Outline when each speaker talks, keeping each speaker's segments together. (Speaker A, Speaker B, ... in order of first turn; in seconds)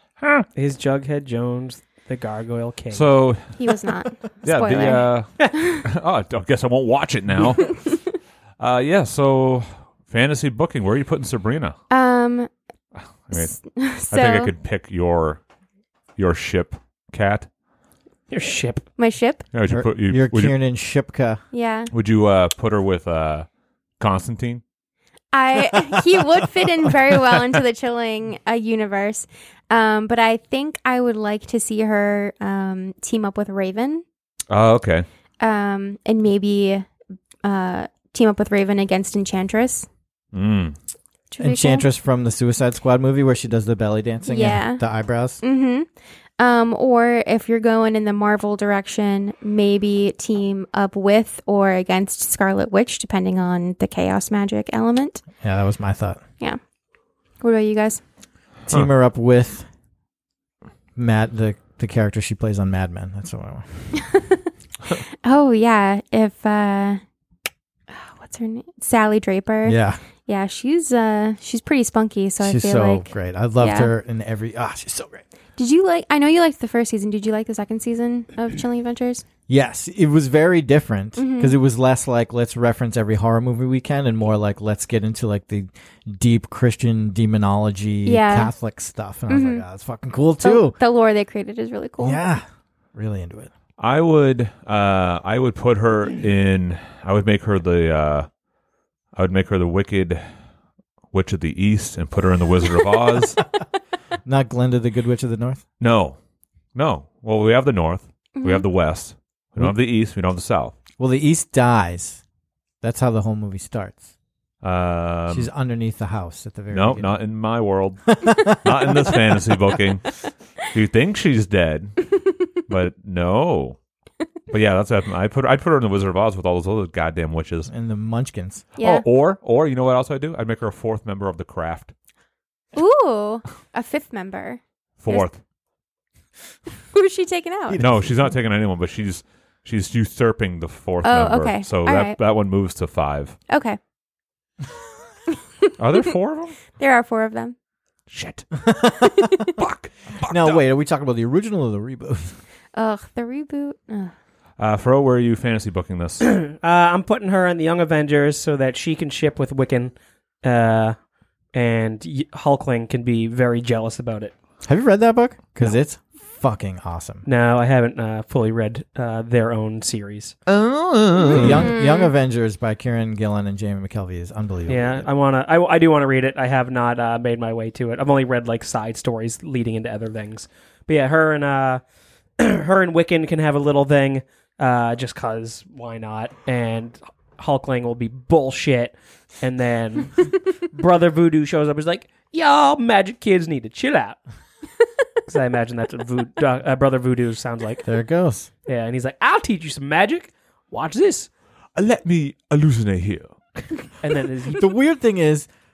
Speaker A: 0.2-0.5, 2.9-3.5, 4.4-7.9, 8.6-11.8, 13.3-13.6, 14.1-15.4, 16.2-17.5, 19.5-20.6, 21.9-23.5, 24.0-24.6, 34.5-35.1, 40.3-40.8, 93.8-98.3, 99.2-100.2, 101.1-103.4, 105.8-106.2, 106.8-110.8, 114.6-115.5, 116.7-122.1, 122.7-123.8, 124.5-127.7, 128.8-131.9, 135.0-135.4, 137.8-143.4, 145.8-146.6, 148.1-148.5, 149.6-150.6, 154.6-156.3, 170.5-171.6, 201.8-203.4
Speaker B: 0.6-3.1, 18.3-18.9, 156.3-161.0, 161.5-164.3, 167.2-170.3, 174.7-181.8, 182.4-194.2, 195.3-197.8, 198.7-201.3, 204.0-204.7
Speaker C: 3.6-5.8, 11.9-12.5, 13.3-14.5, 19.0-19.4, 21.5-21.9, 25.3-34.0, 35.4-36.9, 37.4-39.9, 41.3-41.9, 44.3-44.8, 45.4-45.9, 46.4-55.2, 57.4-58.0, 63.9-64.5, 65.2-67.0, 67.9-73.9, 75.6-79.2, 81.2-81.6, 88.1-88.5, 89.3-89.6, 90.4-92.2, 108.4-108.7, 128.8-129.1, 132.8-135.3, 136.9-137.8, 141.0-142.2, 143.5-143.8, 146.8-147.6, 149.0-149.5, 152.7-154.1, 171.5-172.1
Speaker D: 19.7-21.4, 41.4-45.4, 55.4-56.2, 58.7-59.7, 61.0-63.9, 69.7-70.0, 72.4-75.2, 79.5-90.8, 92.0-93.5, 104.2-105.6, 111.0-112.2, 112.8-114.1, 115.3-117.1, 118.1-119.1, 127.7-128.7, 137.7-138.1, 148.6-149.5, 150.3-152.4, 164.7-167.3, 171.3-175.1, 197.8-198.5, 204.5-205.5